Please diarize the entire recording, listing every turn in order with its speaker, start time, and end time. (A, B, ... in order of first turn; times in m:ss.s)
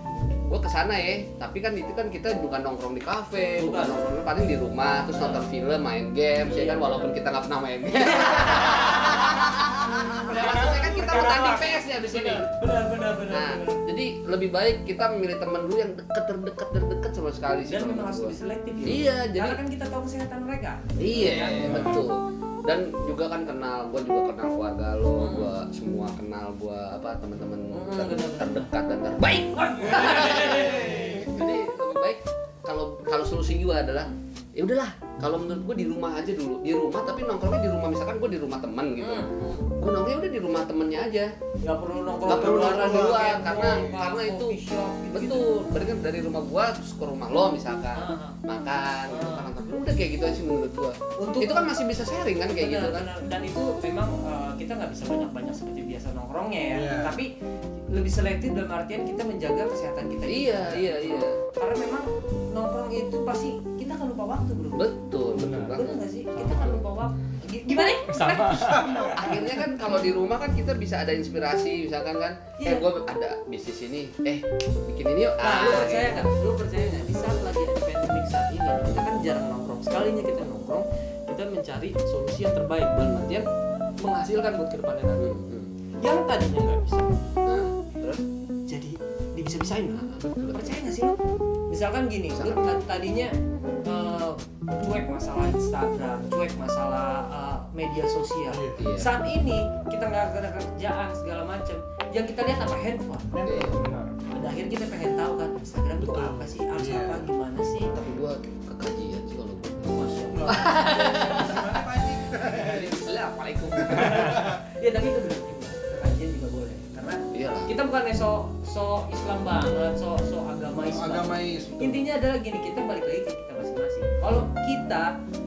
0:00.4-0:12.5 A
0:03.6-0:04.0 B
0:05.1-0:05.4 B
0:06.5-0:07.1 B
0:07.9-0:13.8 B
0:13.3-0:19.6 A
0:17.7-0:22.0 B
0:21.0-0:41.3 A
0:21.6-0:22.0 C
0:25.2-0:25.5 B
0:27.7-0:28.7 B
0:29.6-0:31.2 B
0:39.0-0:39.7 B
0:41.6-0:45.5 B
0:42.2-0:43.9 C
0:42.3-0:44.6 A
0:45.1-0:53.1 A
0:48.0-0:48.4 B
0:49.1-0:49.5 B
0:51.2-0:51.7 B
0:52.6-0:57.3 B
0:56.7-0:57.2 C
0:57.9-1:04.9 B
1:00.3-1:01.4 A
1:04.8-1:06.0 A
1:05.4-1:05.8 D
1:05.7-1:09.2 B
1:06.4-1:06.8 D
1:08.1-1:09.1 D
1:08.6-1:09.4 C
1:09.2-1:16.3 A
1:12.6-1:12.9 B
1:15.4-1:23.4 B
1:23.0-1:23.4 A
1:24.0-1:25.3 B
1:25.2-1:25.7 A
1:26.0-1:27.2 B
1:27.5-1:28.2 A
1:28.7-1:31.2 B
1:30.1-1:30.7 A
1:31.7-1:33.3 B
1:32.3-1:32.8 A
1:33.8-1:43.5 B
1:38.5-1:38.8 C
1:38.8-1:39.1 A
1:43.4-1:43.7 C
1:43.4-1:43.8 A
1:43.7-1:44.1 D
1:44.3-1:47.9 B
1:46.0-1:47.3 C
1:47.9-1:51.8 A
1:49.9-1:50.8 B
1:50.3-1:53.0 C
1:52.5-1:54.5 A
1:53.8-1:54.6 C
1:53.9-2:05.1 B
1:57.3-1:57.7 A
2:00.8-2:02.0 C